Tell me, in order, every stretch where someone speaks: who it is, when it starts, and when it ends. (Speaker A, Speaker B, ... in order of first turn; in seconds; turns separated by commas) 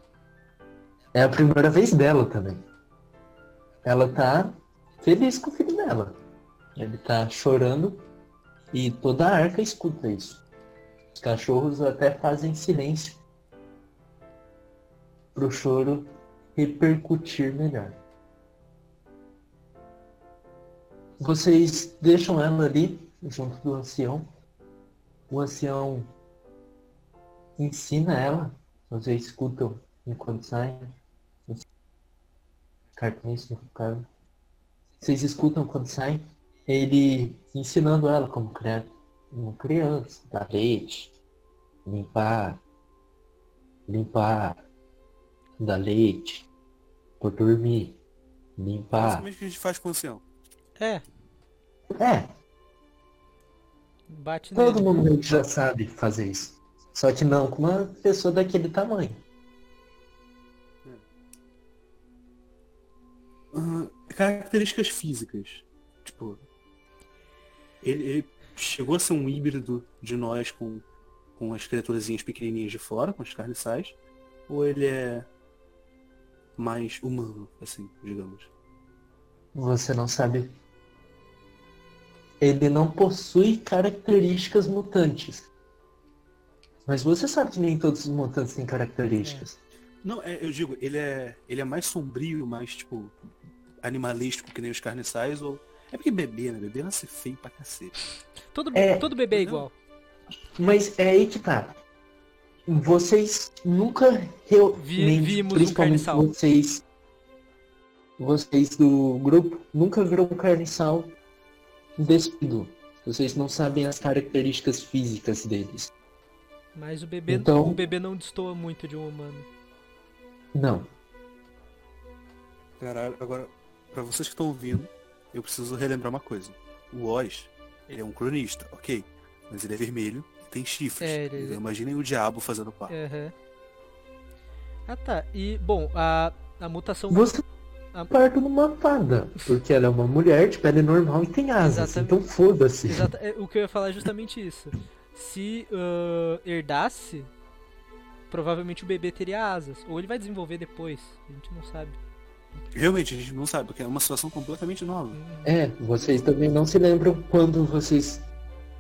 Speaker A: 1.1-2.6, Speaker A: 3.8-6.2, Speaker A: 6.8-8.0, Speaker A: 8.7-10.4, Speaker A: 11.2-13.2, Speaker A: 15.3-18.0, Speaker A: 21.2-24.3, Speaker A: 25.3-26.1, Speaker A: 27.6-30.9, Speaker A: 33.0-34.1, Speaker A: 35.0-41.1, Speaker A: 41.9-42.6, Speaker A: 43.9-44.6, Speaker A: 45.6-46.5, Speaker A: 47.2-48.0, Speaker A: 48.6-49.3, Speaker B: 49.0-50.2, Speaker C: 50.8-51.0, Speaker A: 52.0-52.3, Speaker C: 54.1-54.9, Speaker A: 54.5-59.2, Speaker B: 63.5-66.4, Speaker B: 67.8-70.8, Speaker B: 71.4-74.0, Speaker B: 74.5-75.3, Speaker B: 76.6-78.5, Speaker A: 79.5-80.5, Speaker A: 82.4-85.5, Speaker A: 86.8-89.6, Speaker B: 90.0-93.1, Speaker B: 93.8-97.9, Speaker C: 98.5-99.7, Speaker A: 98.7-99.1, Speaker B: 99.3-99.7, Speaker A: 100.6-101.8, Speaker A: 102.7-106.8, Speaker C: 104.8-106.3, Speaker A: 108.2-111.2, Speaker A: 112.0-115.9, Speaker C: 116.7-119.5, Speaker A: 117.3-117.8, Speaker A: 120.5-120.9, Speaker B: 122.8-132.9, Speaker C: 131.0-131.6, Speaker C: 132.9-133.3, Speaker C: 134.9-137.3, Speaker A: 137.1-137.4, Speaker A: 138.1-143.1, Speaker C: 141.6-142.2, Speaker C: 142.8-147.3, Speaker C: 148.3-152.0, Speaker B: 152.7-155.2, Speaker C: 155.1-155.5, Speaker A: 155.4-158.3